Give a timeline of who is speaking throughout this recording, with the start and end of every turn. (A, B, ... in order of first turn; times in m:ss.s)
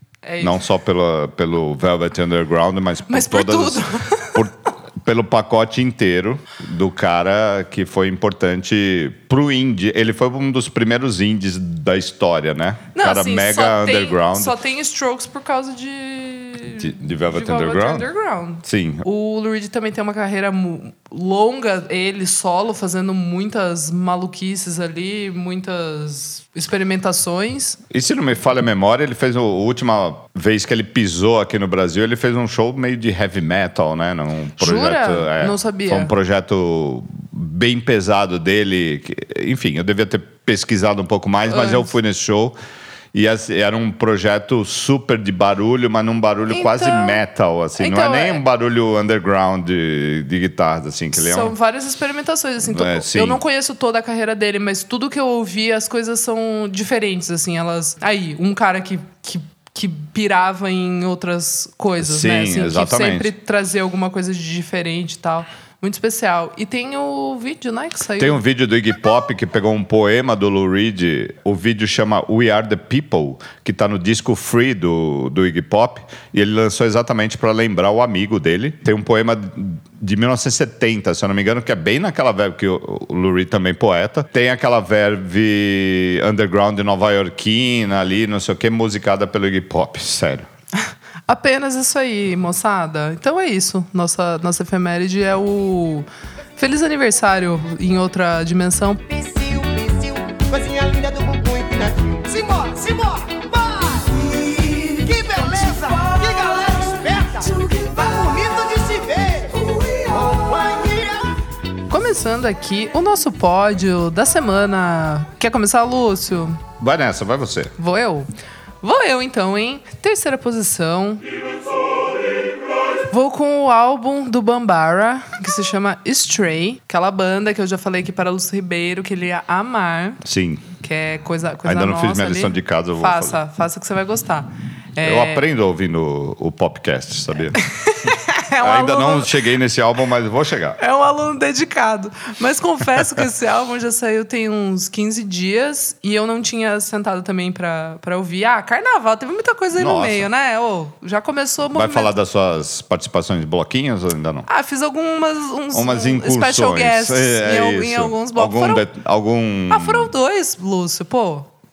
0:00.2-0:00.6 A
0:00.4-0:14.5 B
0:03.1-0:04.4 A
0:12.9-0:27.8 A
0:16.8-0:18.0 B
0:18.6-0:19.0 B
0:27.9-0:42.5 B
0:34.6-0:36.1 A
0:41.5-0:41.9 A
0:43.1-0:51.5 B
0:46.5-0:47.2 A
0:47.8-0:48.4 A
0:51.1-1:08.4 A
0:52.6-0:53.4 B
1:02.0-1:03.3 B
1:08.2-1:30.5 B
1:31.3-1:39.0 A
1:39.1-1:51.3 C
1:51.9-1:56.6 A
1:56.8-1:57.7 B
1:57.8-1:58.3 A
1:58.8-2:01.2 A
2:03.1-2:10.2 A
2:10.2-2:10.7 B
2:10.8-2:15.4 A
2:11.6-2:13.4 B
2:15.0-2:17.6 B
2:17.6-2:19.3 A
2:18.6-2:20.8 B
2:20.8-2:32.1 A
2:29.8-2:30.3 B
2:31.7-2:34.5 B
2:34.5-2:38.8 A
2:35.7-2:40.1 B
2:39.7-2:41.5 A